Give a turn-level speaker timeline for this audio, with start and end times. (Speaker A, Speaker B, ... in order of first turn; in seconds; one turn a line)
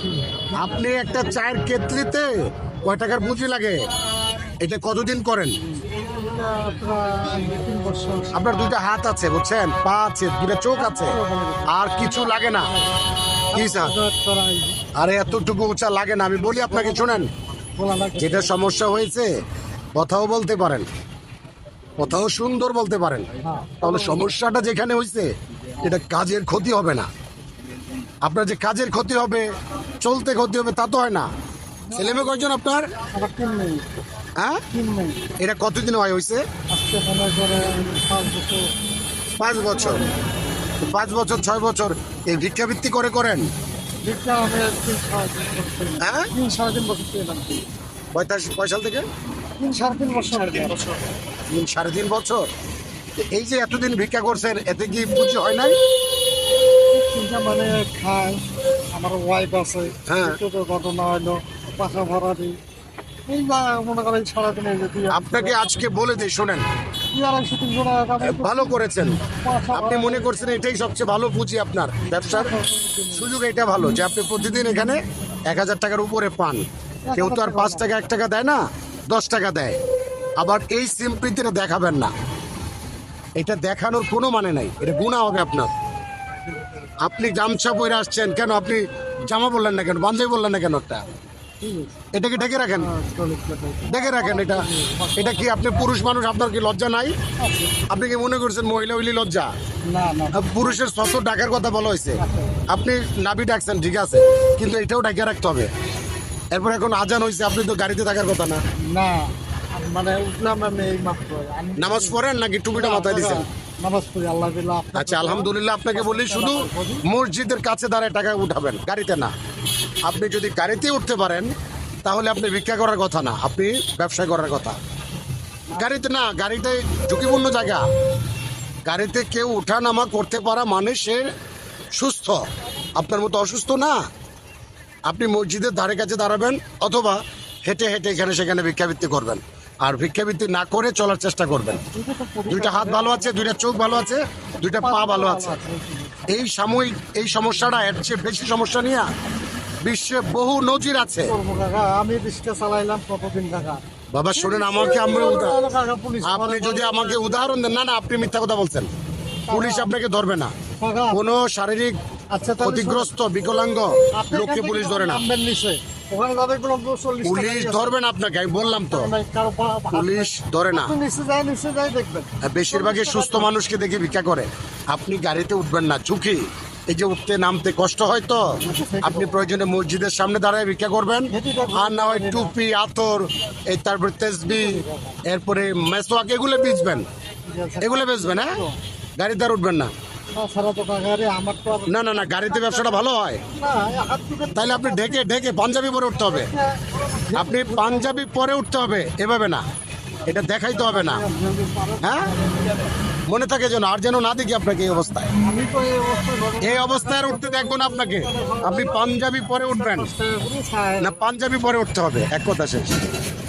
Speaker A: 0.1-0.4
Speaker B: 0.6-3.9
Speaker B: 4.6-5.6
Speaker A: 5.6-8.7
Speaker B: 8.3-11.2
Speaker A: 10.7-12.8
Speaker B: 11.7-12.7
Speaker A: 13.5-14.8
Speaker B: 13.5-13.9
Speaker B: 14.9-17.3
Speaker A: 15.3-15.5
Speaker A: 16.5-17.2
Speaker A: 17.8-18.6
Speaker B: 18.2-19.3
Speaker B: 19.9-20.9
Speaker B: 22.0-25.3
Speaker A: 23.4-24.3
Speaker B: 25.8-27.1
Speaker B: 28.2-29.5
Speaker B: 30.0-31.3
Speaker B: 31.9-32.9
Speaker A: 31.9-32.4
Speaker A: 33.1-33.9
Speaker B: 34.4-34.6
Speaker A: 34.7-35.3
Speaker B: 35.4-36.4
Speaker A: 36.7-38.7
Speaker B: 39.4-40.0
Speaker B: 40.8-43.5
Speaker A: 44.0-47.6
Speaker B: 46.0-46.3
Speaker B: 48.1-49.0
Speaker A: 49.6-51.1
Speaker B: 51.5-52.4
Speaker B: 53.3-55.8
Speaker A: 56.9-62.6
Speaker B: 60.0-60.4
Speaker A: 63.3-66.2
Speaker B: 65.1-66.6
Speaker A: 67.1-70.5
Speaker B: 68.2-69.2
Speaker B: 69.7-72.5
Speaker A: 72.1-73.3
Speaker B: 73.1-76.6
Speaker A: 77.0-78.0
Speaker B: 77.2-78.6
Speaker B: 79.1-79.8
Speaker B: 80.4-82.1
Speaker B: 83.4-85.7
Speaker B: 87.0-91.0
Speaker A: 91.6-92.0
Speaker B: 92.1-92.9
Speaker A: 92.6-95.9
Speaker B: 93.9-94.6
Speaker B: 95.2-97.1
Speaker A: 97.4-97.9
Speaker B: 97.9-99.5
Speaker A: 99.8-100.8
Speaker B: 100.3-105.7
Speaker A: 102.2-102.6
Speaker B: 106.5-108.6
Speaker A: 108.9-117.0
Speaker B: 111.8-113.4
Speaker B: 114.9-119.3
Speaker B: 120.0-121.5
Speaker B: 122.0-124.8
Speaker A: 125.7-126.0
Speaker B: 125.8-127.8
Speaker B: 128.8-131.3
Speaker B: 131.9-132.4
Speaker B: 132.9-133.9
Speaker B: 135.1-141.8
Speaker A: 141.9-143.5
Speaker B: 142.5-145.6
Speaker A: 144.7-146.4
Speaker B: 146.3-149.1
Speaker B: 149.8-151.3
Speaker A: 151.2-157.5
Speaker B: 154.1-155.6
Speaker B: 156.2-158.9
Speaker A: 159.5-160.0
Speaker B: 159.5-160.5
Speaker A: 160.8-161.2
Speaker B: 161.1-162.0
Speaker A: 162.3-163.1
Speaker B: 162.6-165.2
Speaker A: 164.1-167.9
Speaker B: 167.2-169.1
Speaker A: 168.6-173.5
Speaker B: 169.9-170.9
Speaker B: 172.4-187.1
Speaker A: 178.6-179.5
Speaker A: 181.3-182.5
Speaker A: 184.5-185.2
Speaker A: 187.4-188.8
Speaker B: 187.8-188.6
Speaker B: 189.2-189.9
Speaker A: 190.3-195.3
Speaker B: 191.9-193.4
Speaker B: 194.5-196.5
Speaker A: 196.1-198.2
Speaker B: 197.3-199.6
Speaker B: 200.3-201.2
Speaker A: 200.7-202.4
Speaker B: 202.0-202.3
Speaker B: 203.3-205.3
Speaker A: 205.4-211.2
Speaker B: 206.6-210.1
Speaker B: 211.0-212.9